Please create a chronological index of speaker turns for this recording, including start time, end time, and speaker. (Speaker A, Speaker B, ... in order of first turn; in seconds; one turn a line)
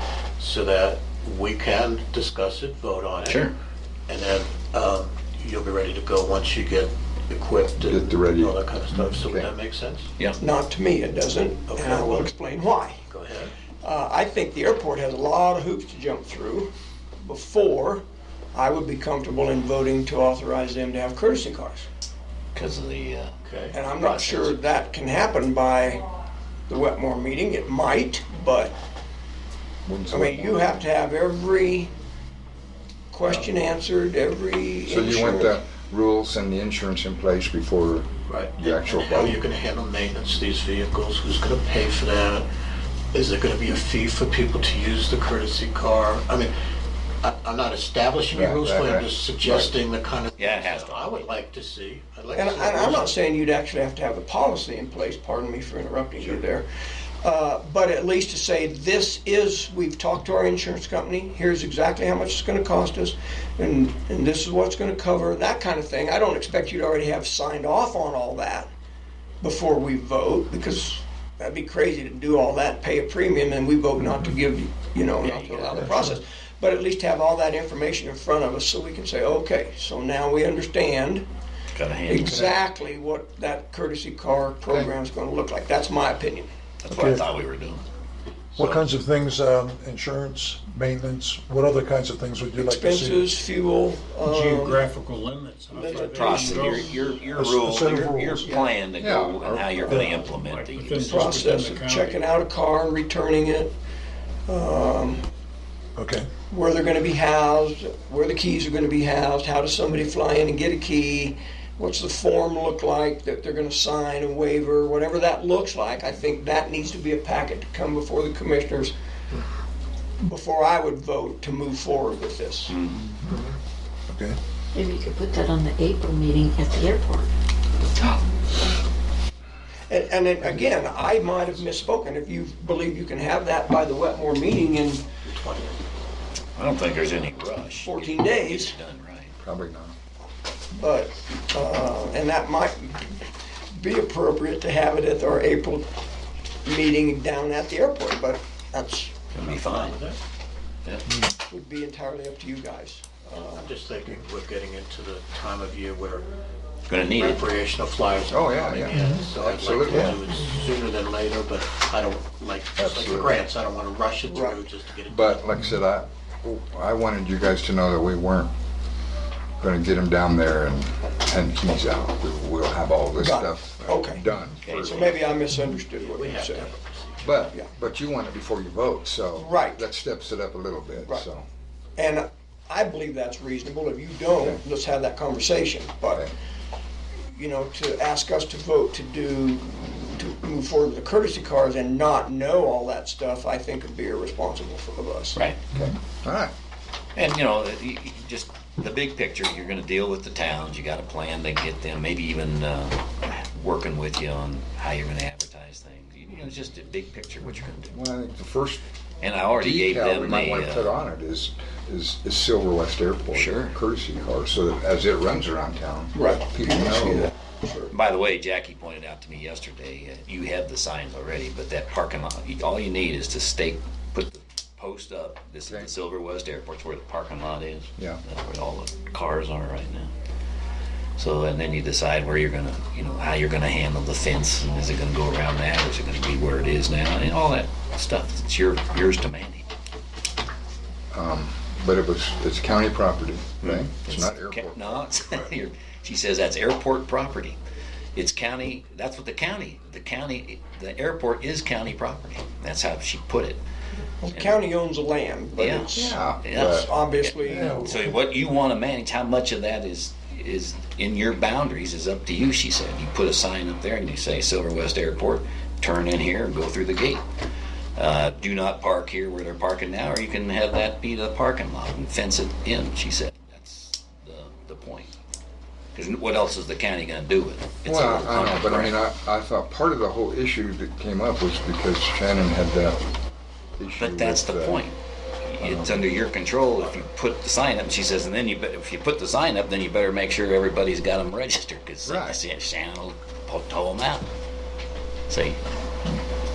Speaker A: 0.4-3.5
Speaker B: 3.2-3.5
Speaker A: 4.1-10.1
Speaker C: 7.8-9.5
Speaker D: 10.4-13.0
Speaker A: 11.7-12.3
Speaker A: 13.1-13.5
Speaker D: 13.8-16.7
Speaker D: 17.2-18.0
Speaker D: 18.5-21.9
Speaker B: 22.5-24.6
Speaker A: 23.4-23.8
Speaker D: 23.7-26.0
Speaker D: 26.7-28.8
Speaker C: 29.9-30.9
Speaker D: 30.1-31.9
Speaker D: 33.1-35.6
Speaker C: 34.9-39.4
Speaker A: 38.3-42.5
Speaker A: 43.1-46.5
Speaker A: 47.2-53.2
Speaker C: 48.3-49.7
Speaker B: 50.4-51.2
Speaker D: 52.3-56.7
Speaker D: 57.2-68.7
Speaker D: 69.4-81.2
Speaker B: 75.2-76.0
Speaker B: 81.7-82.5
Speaker D: 82.1-86.5
Speaker B: 86.8-87.8
Speaker E: 86.9-87.2
Speaker E: 88.6-93.3
Speaker D: 92.6-94.8
Speaker F: 94.2-97.2
Speaker D: 95.7-97.0
Speaker B: 96.1-101.5
Speaker E: 97.2-98.6
Speaker D: 98.4-98.7
Speaker C: 99.0-100.0
Speaker E: 99.9-100.2
Speaker F: 100.2-102.3
Speaker D: 101.1-103.7
Speaker D: 104.5-105.2
Speaker E: 106.0-106.3
Speaker D: 106.5-118.9
Speaker D: 120.2-122.8
Speaker B: 122.7-123.2
Speaker A: 123.3-123.6
Speaker E: 124.1-124.4
Speaker G: 124.7-128.2
Speaker D: 129.9-135.0
Speaker A: 135.2-135.8
Speaker B: 136.6-139.3
Speaker D: 137.8-138.7
Speaker C: 139.4-140.0
Speaker D: 140.7-145.8
Speaker D: 146.7-149.2
Speaker B: 149.3-150.0
Speaker A: 149.4-150.2
Speaker D: 151.5-153.7
Speaker A: 153.5-156.3
Speaker B: 156.9-157.4
Speaker A: 157.0-165.4
Speaker C: 158.3-160.2
Speaker C: 162.8-163.4
Speaker D: 164.3-164.6
Speaker C: 165.1-168.5
Speaker C: 169.6-175.2
Speaker D: 173.2-174.2
Speaker B: 174.6-175.3
Speaker D: 174.8-176.8
Speaker A: 175.9-177.2
Speaker C: 177.2-181.5
Speaker D: 179.3-179.8
Speaker D: 182.0-186.2
Speaker D: 187.3-195.4
Speaker B: 195.3-195.6
Speaker C: 195.7-196.5
Speaker B: 197.2-208.0
Speaker C: 207.9-208.8
Speaker B: 209.2-210.9
Speaker C: 209.5-217.3
Speaker B: 213.3-213.8
Speaker D: 216.1-217.9
Speaker B: 217.9-230.1
Speaker B: 231.2-239.6
Speaker C: 241.1-245.5
Speaker B: 243.6-247.6
Speaker B: 248.2-253.6
Speaker D: 254.2-258.0
Speaker B: 254.3-254.6
Speaker B: 255.6-267.2
Speaker C: 255.9-256.9
Speaker E: 257.6-258.0
Speaker B: 268.0-275.1
Speaker B: 275.9-279.0
Speaker C: 277.9-283.1
Speaker C: 283.8-284.8
Speaker B: 284.0-294.3
Speaker C: 285.6-286.1
Speaker C: 292.1-292.4
Speaker B: 295.3-295.6